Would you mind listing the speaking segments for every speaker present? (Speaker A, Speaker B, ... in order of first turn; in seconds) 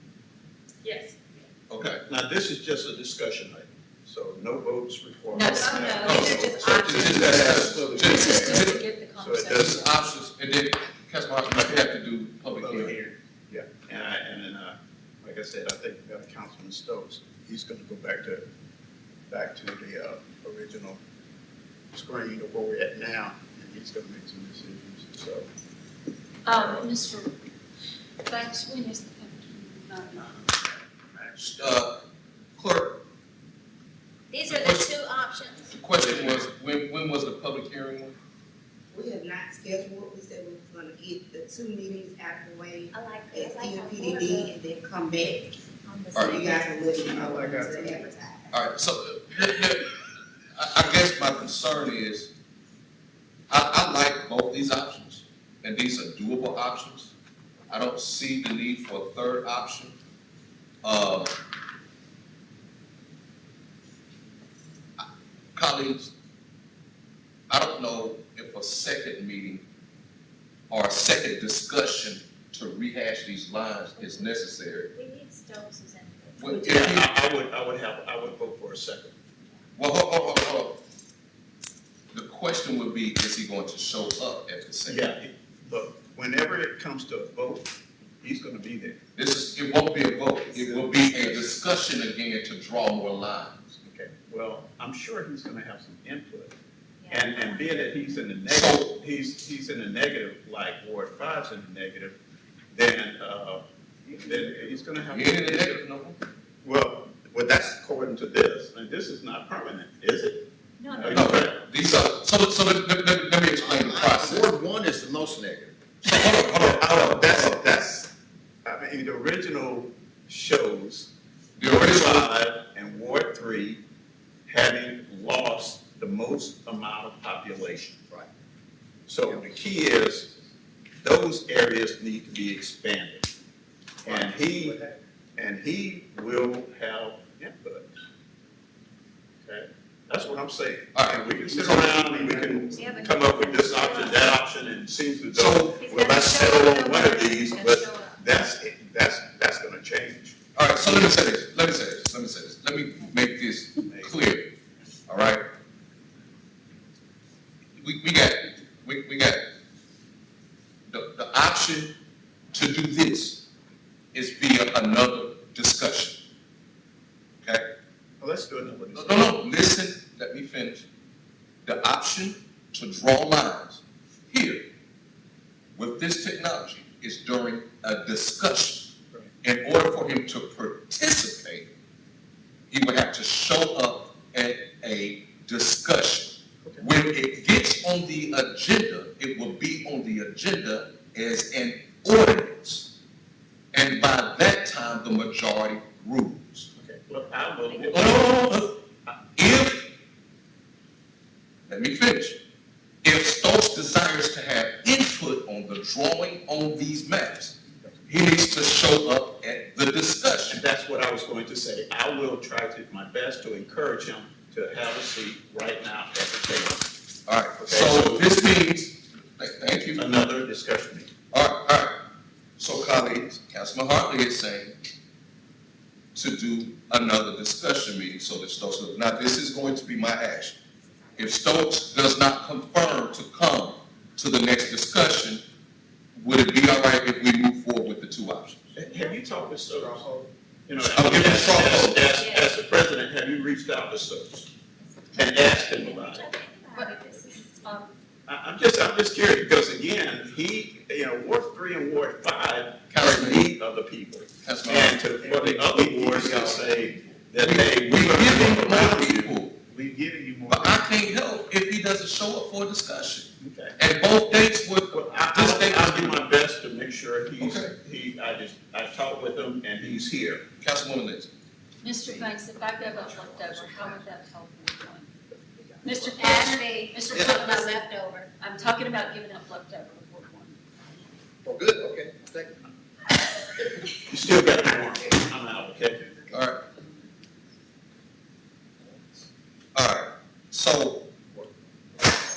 Speaker A: 0.8-1.2, 5.3-10.1, 26.4-27.3, 28.2-30.4, 110.8-111.5, 246.7-247.9, 271.8-275.1, 275.8-280.6
Speaker B: 1.7-2.0, 6.0-8.8, 9.5-13.0, 31.4-32.0, 32.6-33.0, 34.5-34.9, 35.7-38.1, 46.1-46.4, 48.5-50.0, 50.5-52.3, 53.5-57.1, 57.7-60.0, 60.8-61.3, 65.0-66.1, 67.5-69.6, 70.7-74.9, 76.4-77.1, 79.8-80.8, 82.1-85.1, 89.2-93.5, 98.4-99.0, 105.1-106.2, 111.1-114.5, 116.0-117.6, 121.6-122.3, 140.9-142.3, 145.3-145.8, 150.6-154.5, 155.1-155.5, 157.8-159.4, 160.9-161.9, 162.5-163.5, 164.1-166.3, 168.9-170.9, 171.6-174.7, 175.8-181.7, 182.7-192.9, 193.7-196.7, 197.9-198.8, 199.3-199.9, 201.7-202.4, 203.0-210.6, 217.3-220.1, 221.3-222.0, 222.6-224.8, 226.2-230.6, 231.2-235.4, 236.2-238.8, 240.8-242.1, 252.9-253.5, 254.4-256.6, 257.3-259.5, 260.5-266.2, 267.4-267.7, 270.6-271.3, 286.3-286.6, 289.7-291.1
Speaker C: 2.0-8.6, 9.1-9.8, 12.5-18.4, 19.3-21.0, 21.9-25.5, 26.5-26.8, 76.7-79.1, 84.9-89.0, 90.5-91.6, 93.7-96.5, 97.1-102.2, 102.7-105.8, 106.6-112.2, 116.2-118.1, 118.6-123.8, 124.5-128.0, 129.1-130.3, 131.0-133.3, 134.1-134.8, 135.4-137.9, 139.4-151.1, 153.8-154.1, 168.2-169.4, 196.8-198.2, 207.7-208.0, 210.5-216.8, 217.6-218.3, 219.9-221.1, 238.8-240.1, 240.7-244.5, 245.2-246.3, 248.3-260.9, 263.4-263.8, 264.9-270.5, 284.1-286.0
Speaker D: 5.6-7.0, 34.3-35.8, 42.9-44.5, 45.8-46.7, 74.0-74.4, 74.9-77.0, 97.0-98.2, 110.8-111.2, 142.6-144.4, 145.7-148.2, 197.7-198.1, 242.1-242.5, 244.8-247.6, 276.2-278.3
Speaker E: 7.2-7.7, 113.6-115.8, 129.2-129.5, 134.0-135.0, 277.1-277.4, 281.4-282.6
Speaker F: 38.9-45.6, 46.1-48.5